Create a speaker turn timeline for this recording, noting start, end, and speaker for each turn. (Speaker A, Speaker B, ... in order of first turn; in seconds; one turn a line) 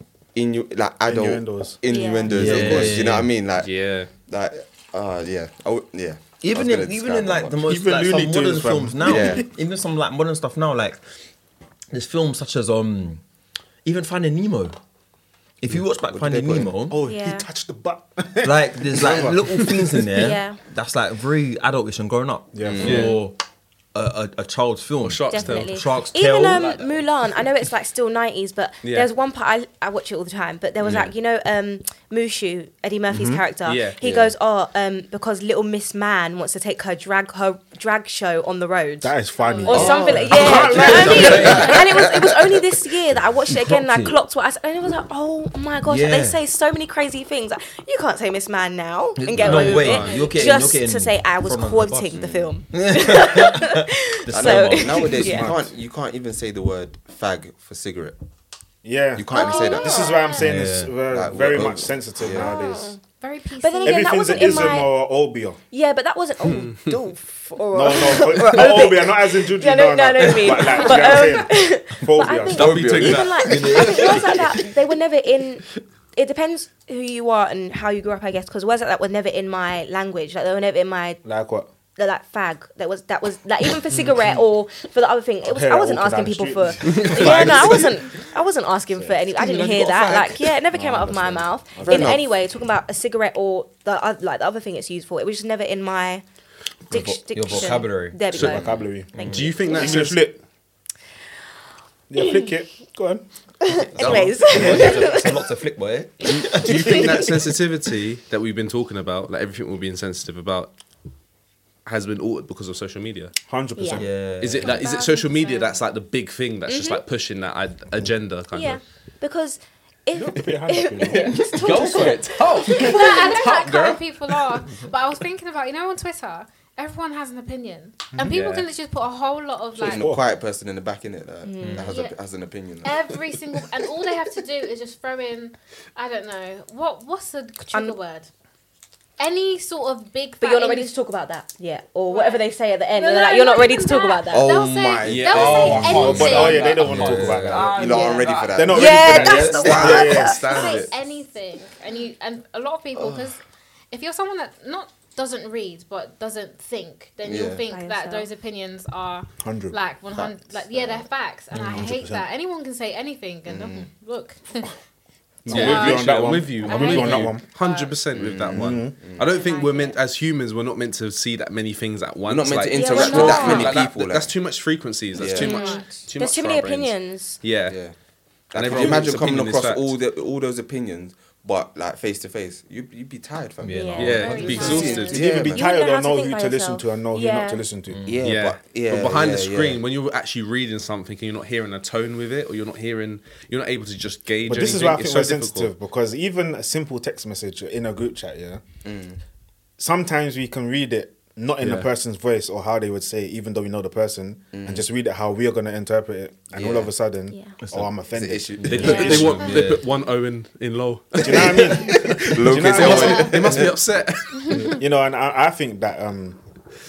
Speaker A: 0.3-7.6
Speaker B: 1.1-1.8
Speaker C: 1.9-2.6
Speaker D: 2.3-3.3
Speaker B: 2.3-2.7
Speaker E: 3.6-4.1
Speaker D: 6.4-11.0
Speaker B: 7.7-9.4
Speaker A: 9.0-9.4
Speaker D: 11.9-13.2
Speaker D: 13.8-14.8
Speaker D: 15.6-17.1
Speaker A: 16.1-16.8
Speaker B: 16.9-19.4
Speaker C: 17.0-17.5
Speaker D: 18.4-23.4
Speaker C: 20.1-20.6
Speaker B: 22.5-23.1
Speaker A: 22.6-23.1
Speaker D: 23.9-27.0
Speaker E: 25.1-25.8
Speaker C: 25.3-55.5
Speaker E: 28.8-29.1
Speaker A: 30.8-31.1
Speaker B: 33.1-33.4
Speaker E: 33.6-34.0
Speaker A: 34.0-34.3
Speaker B: 39.0-41.9
Speaker F: 39.4-40.3
Speaker D: 39.8-42.0
Speaker A: 39.8-40.3
Speaker A: 41.1-42.2
Speaker D: 43.5-44.2
Speaker D: 45.8-46.4
Speaker D: 49.2-52.2
Speaker E: 49.4-50.3
Speaker F: 50.0-50.4
Speaker A: 52.1-52.5
Speaker D: 52.7-55.4
Speaker A: 54.3-58.2
Speaker B: 55.2-55.6
Speaker B: 58.8-63.0
Speaker A: 59.1-60.2
Speaker C: 59.3-60.4
Speaker F: 59.3-60.4
Speaker D: 60.4-61.0
Speaker A: 61.1-62.5
Speaker C: 62.3-63.0
Speaker F: 63.2-64.8
Speaker C: 63.6-64.9
Speaker B: 63.8-65.6
Speaker C: 65.7-81.2
Speaker E: 66.4-66.9
Speaker B: 67.7-72.9
Speaker D: 70.2-70.7
Speaker F: 70.7-71.0
Speaker A: 72.6-73.4
Speaker D: 72.6-74.7
Speaker E: 72.7-73.2
Speaker B: 81.2-81.7
Speaker C: 82.0-96.2
Speaker E: 83.9-84.2
Speaker B: 85.5-87.8
Speaker E: 86.8-87.8
Speaker D: 87.0-87.9
Speaker A: 89.4-90.6
Speaker B: 90.8-92.2
Speaker A: 91.8-92.2
Speaker C: 96.9-99.9
Speaker D: 96.9-98.4
Speaker E: 98.3-98.7
Speaker B: 98.4-100.4
Speaker A: 98.4-98.8
Speaker D: 99.1-99.6
Speaker E: 99.2-100.3
Speaker B: 102.1-103.2
Speaker C: 102.2-102.5
Speaker C: 103.6-105.5
Speaker D: 103.9-107.3
Speaker B: 104.0-104.9
Speaker C: 106.2-107.3
Speaker E: 106.5-110.7
Speaker E: 111.9-113.3
Speaker B: 113.5-114.2
Speaker C: 113.8-114.0
Speaker D: 113.9-114.8
Speaker E: 114.4-118.8
Speaker C: 114.6-114.9
Speaker F: 114.7-115.7
Speaker C: 116.7-117.0
Speaker C: 118.5-123.5
Speaker B: 120.2-121.4
Speaker E: 121.1-124.0
Speaker D: 121.2-122.3
Speaker F: 122.7-130.1
Speaker E: 128.3-128.7
Speaker A: 129.8-133.2
Speaker B: 129.8-130.3
Speaker C: 131.4-131.9
Speaker D: 131.6-131.9
Speaker F: 131.9-132.2
Speaker F: 132.8-138.3
Speaker F: 139.2-140.9
Speaker C: 140.4-144.6
Speaker F: 142.1-146.8
Speaker A: 144.3-150.1
Speaker E: 145.0-147.7
Speaker B: 145.7-147.9
Speaker D: 146.8-149.9
Speaker C: 147.8-150.8
Speaker B: 148.5-150.4
Speaker E: 149.3-150.9
Speaker F: 150.4-164.7
Speaker A: 152.9-153.3
Speaker A: 157.2-157.6
Speaker C: 157.7-158.3
Speaker B: 159.4-159.8
Speaker A: 160.1-161.1
Speaker B: 161.5-162.2
Speaker A: 163.5-163.9
Speaker B: 165.5-167.4
Speaker E: 165.5-177.8
Speaker F: 165.5-168.0
Speaker A: 168.1-169.3
Speaker B: 168.5-169.0
Speaker F: 169.2-170.0
Speaker A: 172.2-174.3
Speaker C: 172.7-173.8
Speaker A: 175.1-175.5
Speaker F: 175.4-176.0
Speaker C: 175.4-177.4
Speaker A: 177.7-177.9
Speaker A: 178.5-184.2
Speaker E: 178.5-179.9
Speaker D: 183.6-185.1
Speaker C: 183.7-187.6
Speaker E: 184.0-185.3
Speaker F: 184.2-185.1
Speaker A: 184.8-185.7
Speaker B: 185.2-188.0
Speaker D: 187.9-188.3
Speaker A: 188.1-189.8
Speaker E: 188.2-195.7
Speaker B: 194.4-198.6
Speaker A: 198.8-199.2
Speaker B: 199.8-209.3
Speaker D: 201.6-201.9
Speaker A: 204.5-204.9
Speaker A: 206.5-206.9
Speaker D: 207.6-207.9
Speaker A: 208.1-209.5
Speaker D: 208.6-209.9
Speaker E: 208.8-214.8
Speaker B: 211.2-213.7
Speaker A: 211.3-213.8
Speaker F: 214.3-214.6
Speaker B: 214.5-216.4